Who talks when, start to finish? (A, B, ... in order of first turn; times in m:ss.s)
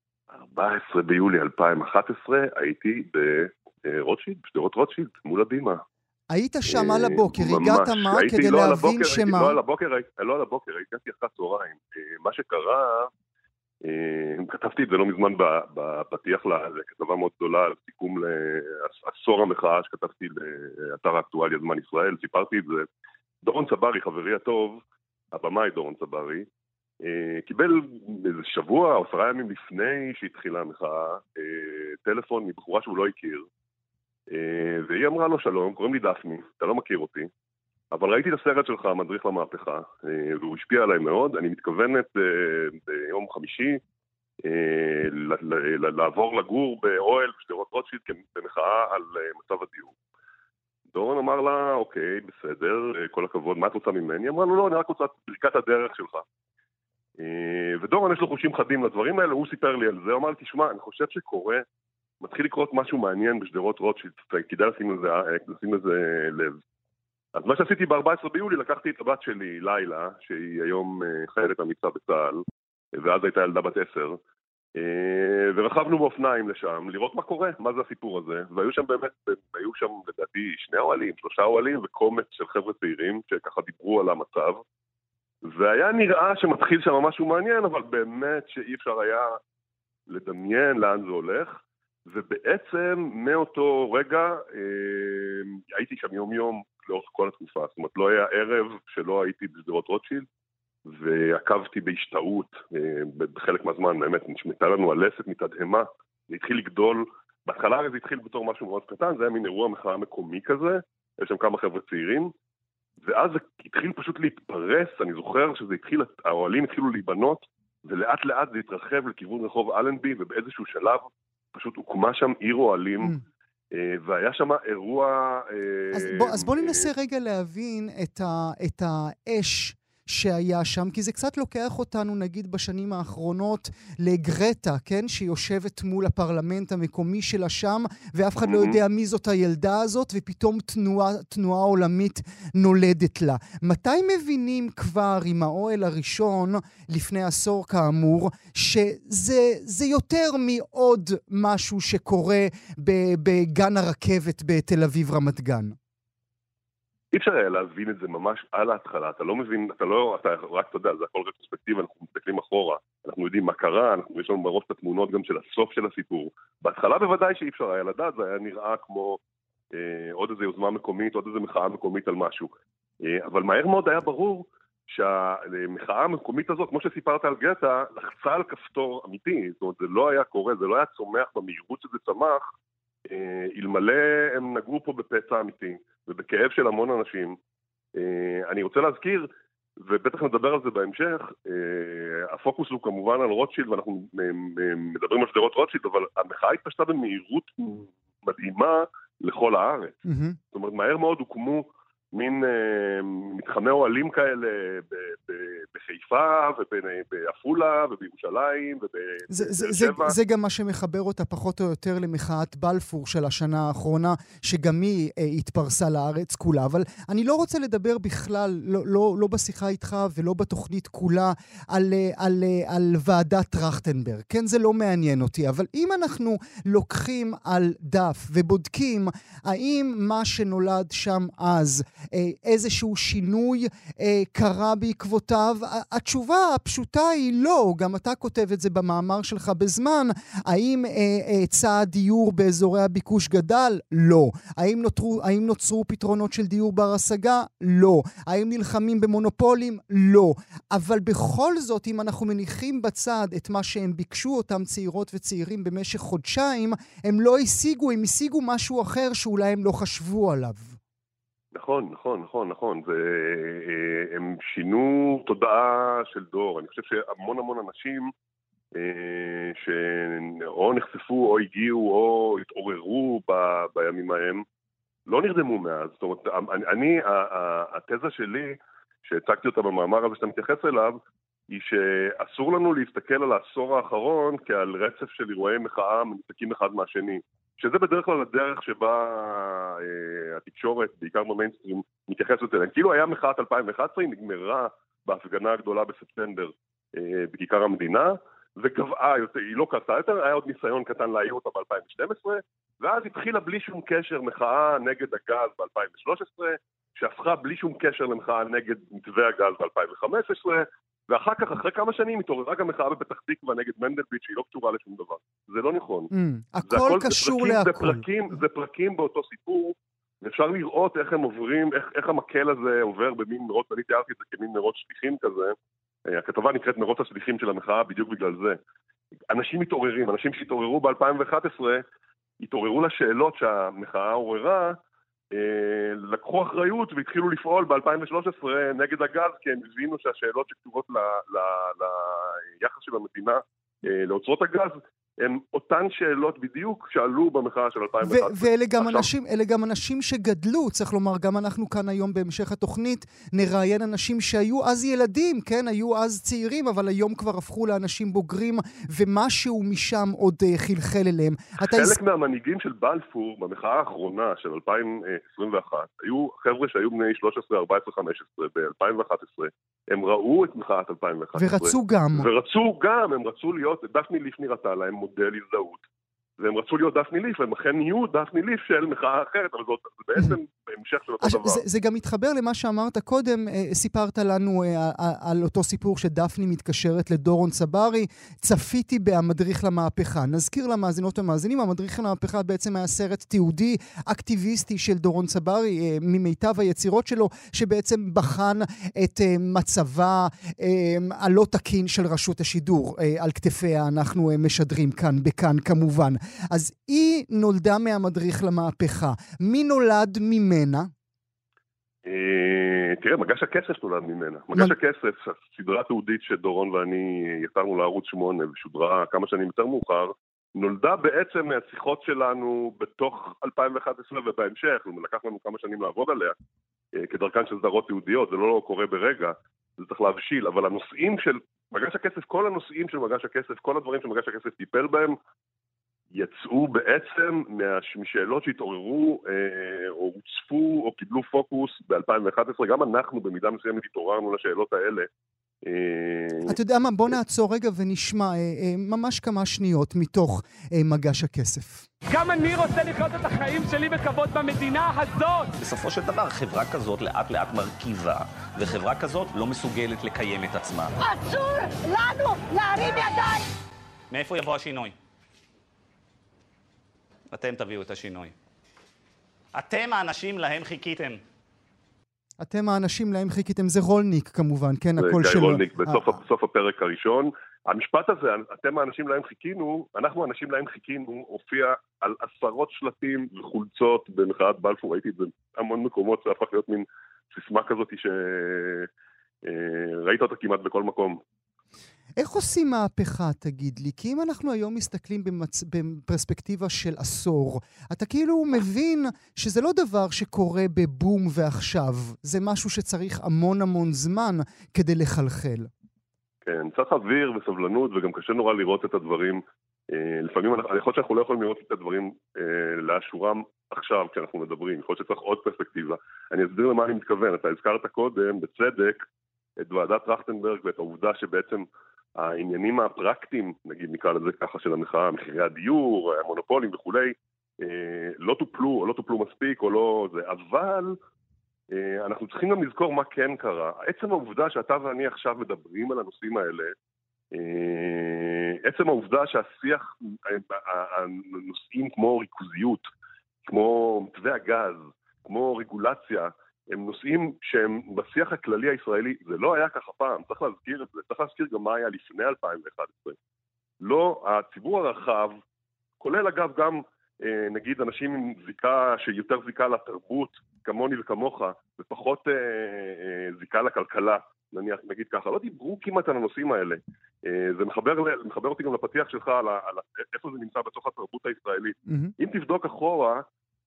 0:00.3-0:05.8 A
0:06.3-0:09.6 B
0:06.7-0:13.1 A
0:13.8-0:22.9 A
0:23.4-0:24.8 A
0:25.3-0:26.5 A
0:27.0-0:33.5 A
0:34.3-0:37.3 A
0:37.9-0:43.8 A
0:44.4-0:50.0 A
0:50.9-0:56.2 A
0:57.2-1:01.6 A
1:02.2-1:06.6 A
1:07.4-1:14.2 A
1:14.8-1:24.6 A
1:25.4-1:29.4 A
1:30.1-1:40.3 A
1:40.9-1:52.3 A
1:53.0-2:03.2 A
2:03.7-2:06.9 A
2:05.9-2:35.8 B
2:18.4-2:18.8 A
2:37.1-2:49.2 A
2:49.7-3:02.4 A
3:03.1-3:07.4 A
3:08.0-3:09.3 A
3:09.8-3:20.0 A
3:20.1-3:20.4 B
3:20.5-3:30.2 A
3:29.3-4:20.8 B
4:21.5-4:28.1 A
4:28.8-4:34.4 A
4:35.1-4:41.0 A
4:41.5-5:16.1 A
5:16.1-5:18.0 B
5:16.7-5:25.6 A
5:26.1-5:28.6 A
5:29.3-5:31.8 A
5:32.4-5:34.8 A
5:35.3-5:49.1 A
5:48.0-6:02.0 B
6:01.6-6:15.8 A
6:11.4-6:12.3 B
6:16.4-6:21.6 A
6:21.2-6:50.9 B
6:52.0-7:06.4 A
7:07.0-7:15.2 A
7:16.1-7:25.1 A
7:25.6-7:26.6 A
7:26.5-7:31.9 B
7:32.1-7:35.5 C
7:35.6-7:40.9 D
7:41.0-7:43.5 E
7:44.1-7:45.0 D
7:47.3-7:48.3 D
7:49.6-7:51.2 D
7:52.4-7:56.1 B
7:55.0-8:08.9 A
8:09.4-8:11.2 A
8:12.2-8:25.7 B
8:26.4-8:39.0 A
8:39.6-8:41.7 A
8:42.2-8:51.0 A
8:51.7-8:56.7 A
8:57.3-9:02.8 A
9:03.5-9:13.2 A
9:13.8-9:15.4 A
9:16.0-9:33.2 A